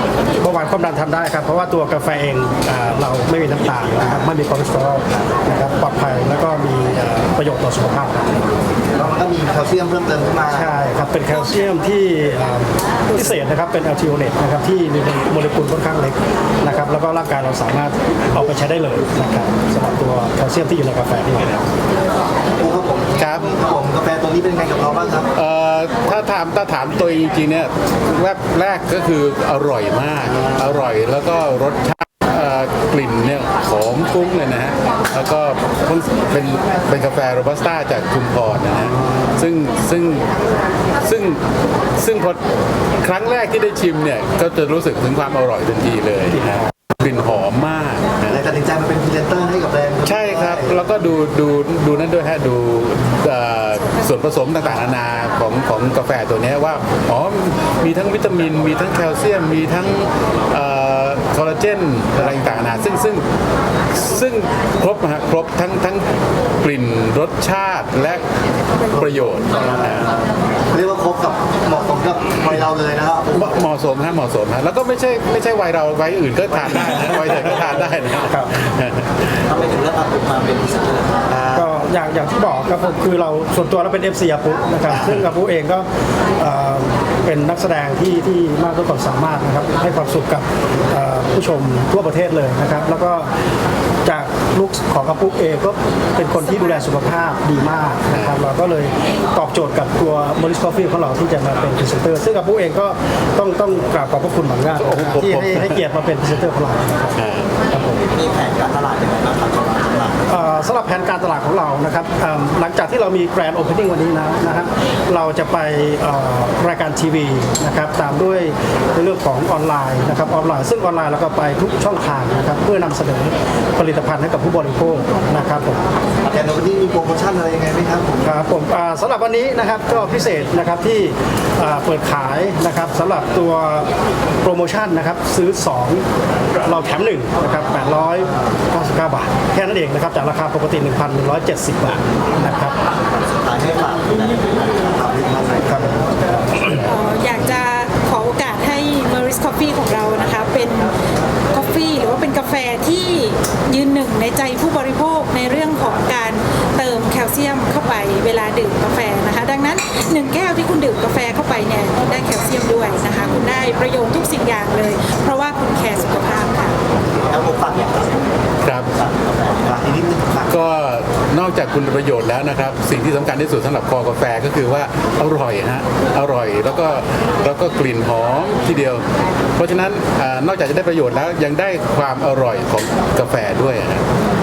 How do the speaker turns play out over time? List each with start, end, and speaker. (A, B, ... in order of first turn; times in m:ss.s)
0:00.4-0:08.4 A
0:08.9-0:10.7 B
0:10.5-0:21.7 A
0:22.5-0:25.3 B
0:23.2-0:23.5 C
0:25.3-0:40.3 C
0:30.2-0:30.8 B
0:41.0-0:41.4 C
0:42.0-0:42.4 C
0:43.0-0:48.4 C
0:46.3-0:46.7 A
0:48.2-0:50.9 B
0:50.0-1:03.2 C
1:03.9-1:08.2 C
1:08.9-1:10.2 C
1:08.9-1:13.6 B
1:13.3-1:19.5 C
1:16.5-1:17.8 B
1:18.2-1:18.5 A
1:19.5-1:21.7 B
1:21.5-1:33.3 A
1:24.9-1:25.2 B
1:34.0-1:48.0 A
1:38.1-1:38.4 C
1:44.8-1:45.8 C
1:47.2-1:47.6 C
1:48.1-1:50.2 B
1:50.3-2:05.9 A
2:06.3-2:08.3 B
2:08.2-2:13.9 A
2:14.4-2:16.0 A
2:16.6-2:22.8 A
2:23.0-2:26.2 B
2:25.6-2:26.9 A
2:26.8-2:30.9 D
2:31.5-2:46.8 D
2:47.2-2:48.3 B
2:48.6-2:48.9 C
2:49.0-2:50.6 B
2:50.5-3:04.0 C